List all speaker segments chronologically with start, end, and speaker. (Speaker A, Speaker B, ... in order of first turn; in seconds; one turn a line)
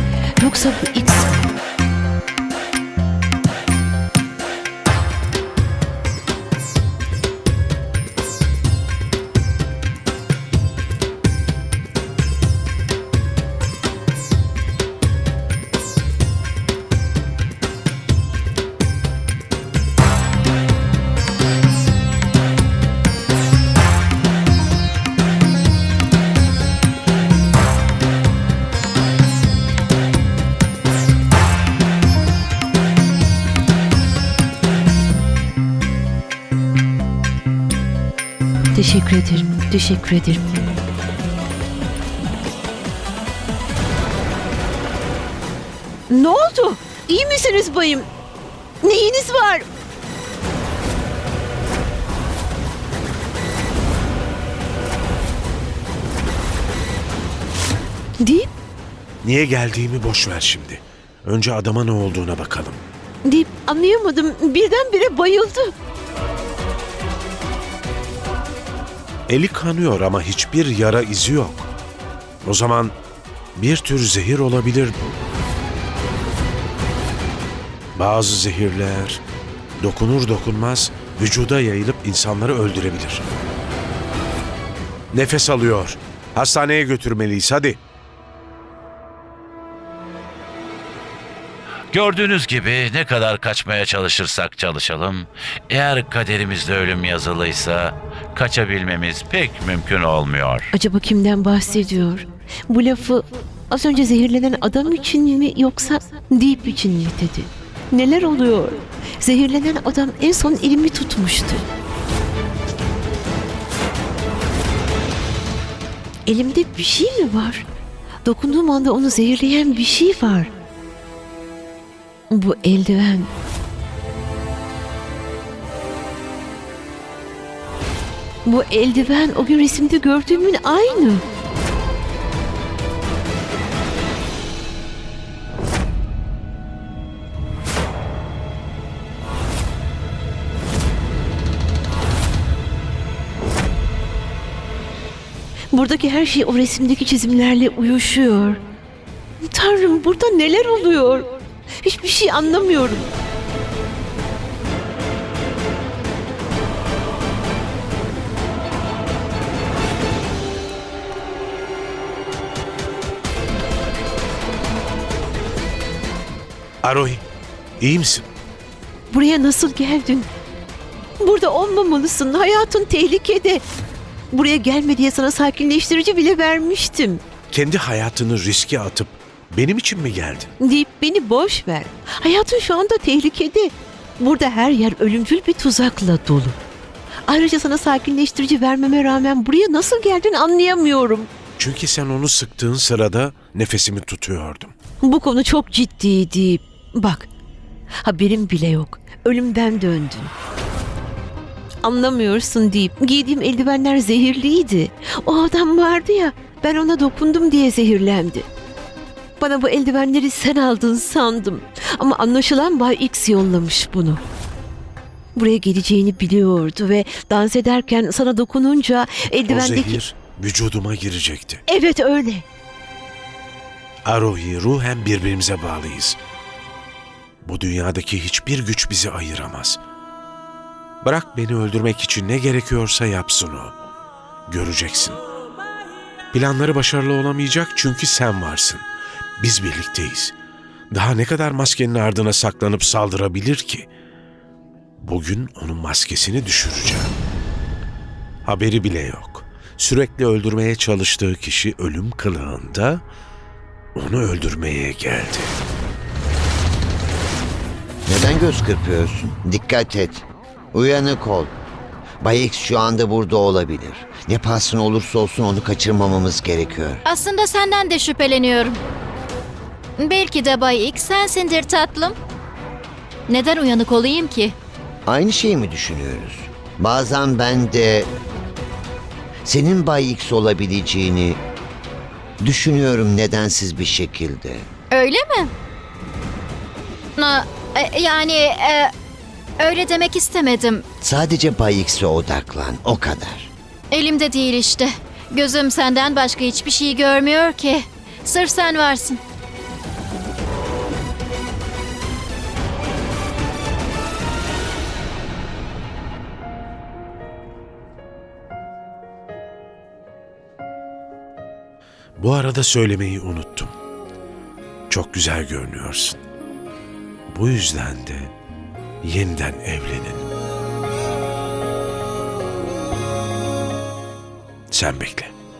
Speaker A: 0.4-1.5
Speaker A: 38.7-40.5
Speaker A: 46.1-48.1
Speaker A: 48.8-49.6
Speaker A: 58.2-58.5
Speaker B: 59.2-62.8
Speaker A: 63.2-65.7
Speaker B: 69.3-71.7
Speaker B: 72.4-73.0
Speaker B: 73.5-75.2
Speaker B: 78.0-79.2
Speaker B: 79.8-83.2
Speaker B: 85.1-87.8
Speaker C: 91.9-100.7
Speaker A: 100.7-111.7
Speaker A: 116.2-117.7
Speaker A: 118.2-120.5
Speaker A: 122.3-123.3
Speaker A: 128.4-131.2
Speaker A: 145.7-148.6
Speaker A: 149.4-151.3
Speaker A: 151.8-153.0
Speaker B: 166.8-167.2
Speaker B: 167.8-168.3
Speaker A: 169.1-170.3
Speaker A: 171.2-173.6
Speaker A: 174.3-177.2
Speaker B: 177.5-180.5
Speaker A: 180.6-186.6
Speaker A: 187.3-191.3
Speaker B: 191.6-194.7
Speaker A: 195.0-197.3
Speaker A: 198.0-200.3
Speaker A: 201.8-208.5
Speaker A: 209.4-214.2
Speaker A: 215.3-220.0
Speaker B: 219.5-221.6
Speaker A: 221.7-222.4
Speaker B: 224.1-226.2
Speaker B: 227.4-229.8
Speaker B: 231.0-233.8
Speaker B: 234.5-235.2
Speaker B: 236.3-238.9
Speaker B: 239.4-240.3
Speaker B: 240.9-243.9
Speaker B: 245.0-247.1
Speaker B: 248.4-253.0
Speaker B: 253.9-255.6
Speaker D: 258.1-261.5
Speaker D: 262.2-267.0
Speaker E: 267.0-268.8
Speaker E: 270.0-272.1
Speaker E: 273.3-274.5
Speaker D: 275.1-278.1
Speaker D: 279.4-281.4
Speaker D: 282.4-284.7
Speaker E: 284.9-285.5
Speaker E: 287.2-288.9
Speaker E: 289.6-290.8
Speaker D: 291.0-293.5
Speaker E: 293.9-299.2
Speaker B: 312.2-313.7
Speaker B: 314.9-316.2
Speaker B: 317.3-318.3
Speaker B: 319.0-320.2
Speaker B: 324.7-325.3